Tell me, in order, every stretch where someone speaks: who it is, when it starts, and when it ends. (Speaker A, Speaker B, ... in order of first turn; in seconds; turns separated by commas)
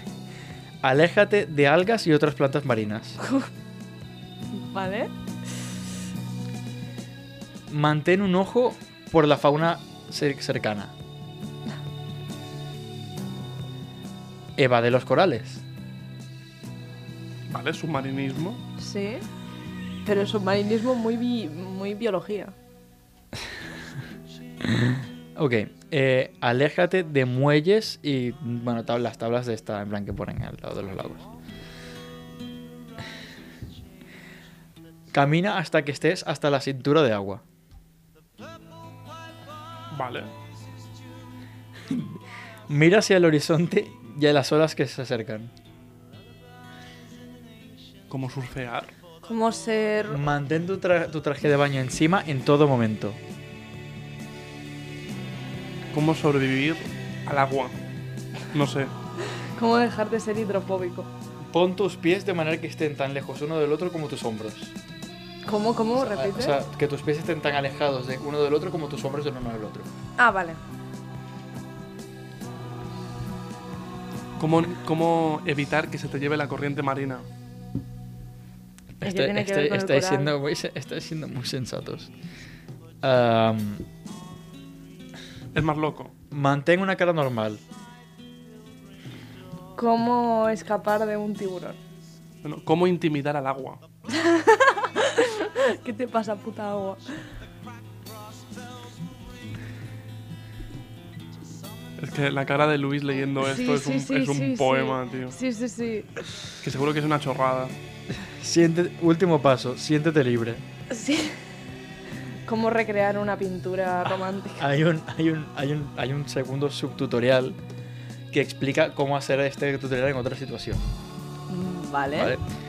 Speaker A: 0.8-3.2, Speaker B: 4.5-5.1, Speaker A: 7.7-10.9, Speaker A: 14.6-15.6, Speaker C: 17.5-18.6, Speaker B: 18.8-19.2, Speaker B: 20.1-22.6, Speaker A: 24.6-31.3, Speaker A: 35.1-37.4, Speaker C: 39.9-40.3, Speaker A: 41.9-45.5, Speaker C: 48.1-48.9, Speaker B: 49.2-50.3, Speaker A: 50.1-53.2, Speaker C: 55.9-57.8, Speaker C: 58.5-58.9, Speaker B: 59.6-61.1, Speaker A: 61.5-64.7, Speaker B: 65.5-66.6, Speaker A: 66.0-69.9, Speaker B: 70.2-70.6, Speaker C: 74.4-77.3, Speaker A: 79.0-82.1, Speaker B: 79.0-80.3, Speaker A: 83.0-83.8, Speaker C: 85.5-86.1, Speaker A: 86.3-87.6, Speaker B: 89.8-91.8, Speaker C: 92.4-93.8, Speaker B: 94.1-97.2, Speaker C: 102.0-105.3, Speaker B: 103.4-106.2, Speaker C: 106.6-107.7, Speaker A: 108.1-110.7, Speaker B: 110.9-111.4, Speaker B: 112.5-114.7, Speaker A: 114.6-117.6, Speaker A: 118.3-120.9, Speaker B: 121.5-122.4, Speaker A: 122.1-122.4